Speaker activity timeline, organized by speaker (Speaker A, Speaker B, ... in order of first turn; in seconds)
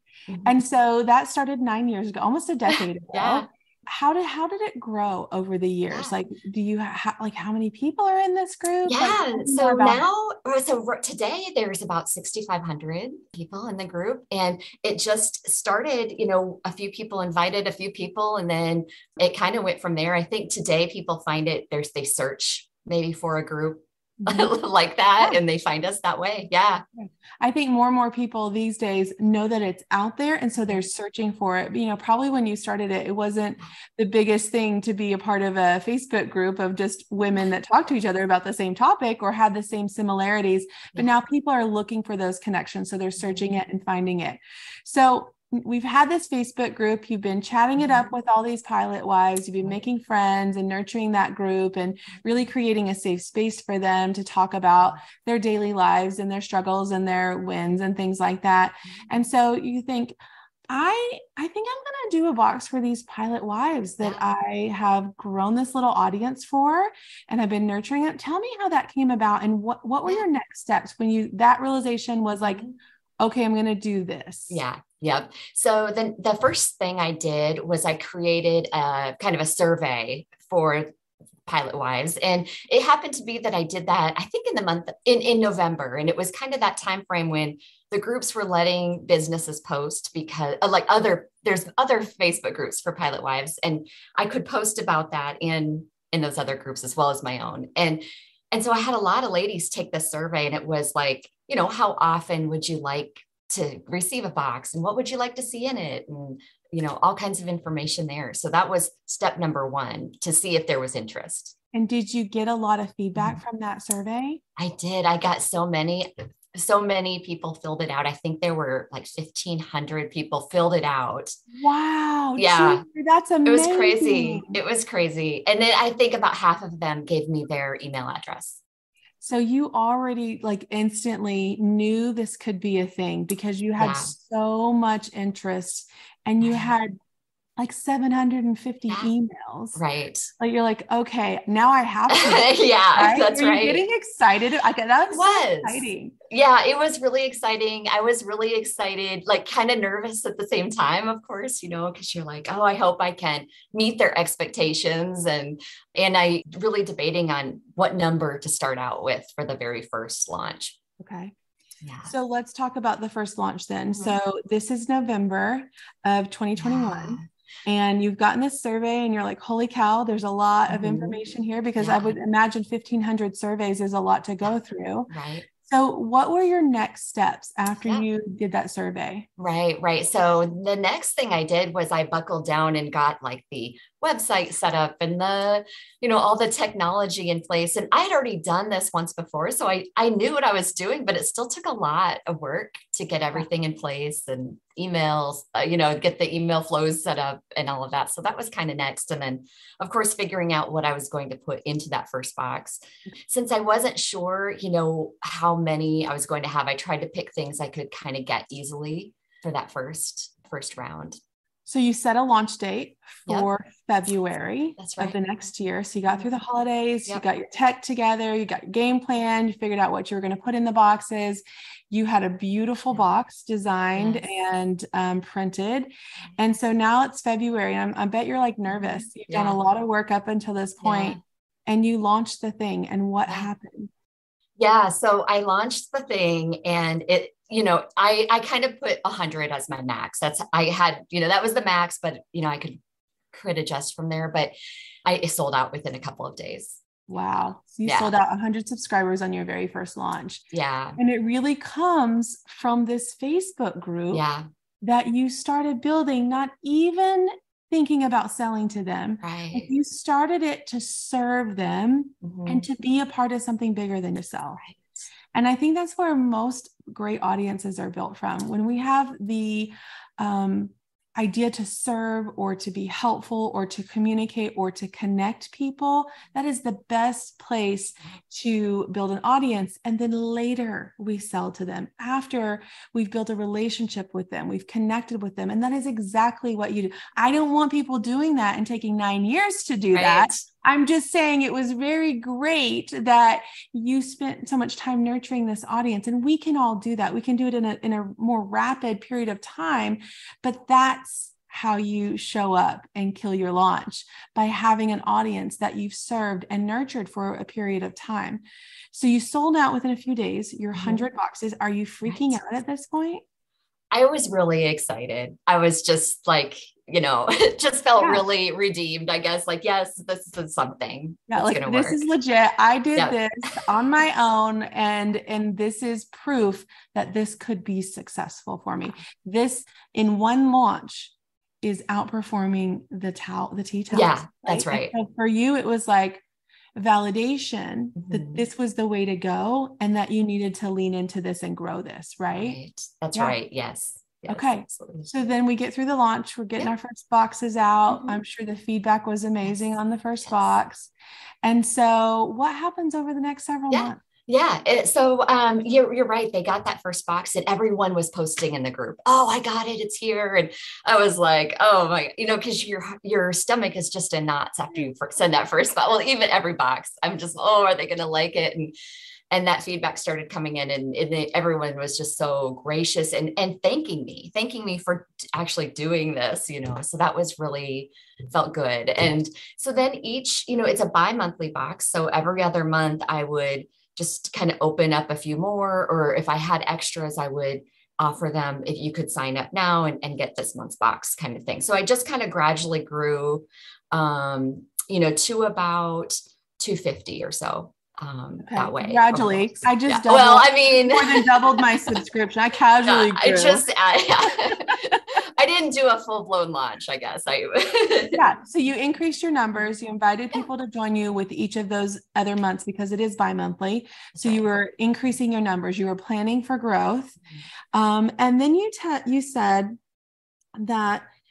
Speaker A: 0.3-0.6, 3.1-3.5, 5.9-6.2, 8.8-26.8, 43.2-43.5, 47.8-48.1, 58.9-59.2, 72.4-72.7, 74.5-80.9, 81.5-111.5, 114.6-121.3, 122.3-122.8, 123.4-128.6, 133.8-134.1, 136.4-136.7, 139.7-140.3, 142.1-143.9, 145.1-160.8, 161.8-162.1, 163.9-164.2, 166.6-167.3, 170.7-171.2, 171.8-172.2, 175.1-175.5, 179.4-211.2, 214.8-215.2, 223.9-224.3, 228.7-229.6, 230.8-231.2, 234.6-242.8, 243.3-244.5, 245.0-246.8, 247.8-248.2, 250.5-251.0, 254.1-254.4, 259.2-259.7, 262.2-262.7, 289.9-290.4, 310.7-311.1, 312.0-312.4, 313.9-322.0, 333.9-334.9, 337.9-338.4, 342.3-345.1, 347.9-348.2, 350.2-350.5, 353.7-368.7, 369.3-402.0, 402.8-408.2, 414.1-414.4
Speaker B: 0.4-10.0, 24.2-24.5, 27.0-60.2, 60.7-72.7, 73.2-74.6, 111.7-114.4, 121.5-124.6, 129.2-136.9, 137.6-139.8, 140.4-146.1, 161.0-161.3, 162.0-175.1, 175.6-179.3, 211.7-233.9, 247.1-250.4, 251.0-254.2, 254.8-264.6, 265.3-313.2, 321.3-336.2, 336.8-342.6, 344.3-350.9, 351.4-354.0, 398.4-403.6, 408.1-417.2, 417.7-419.8, 420.6-421.1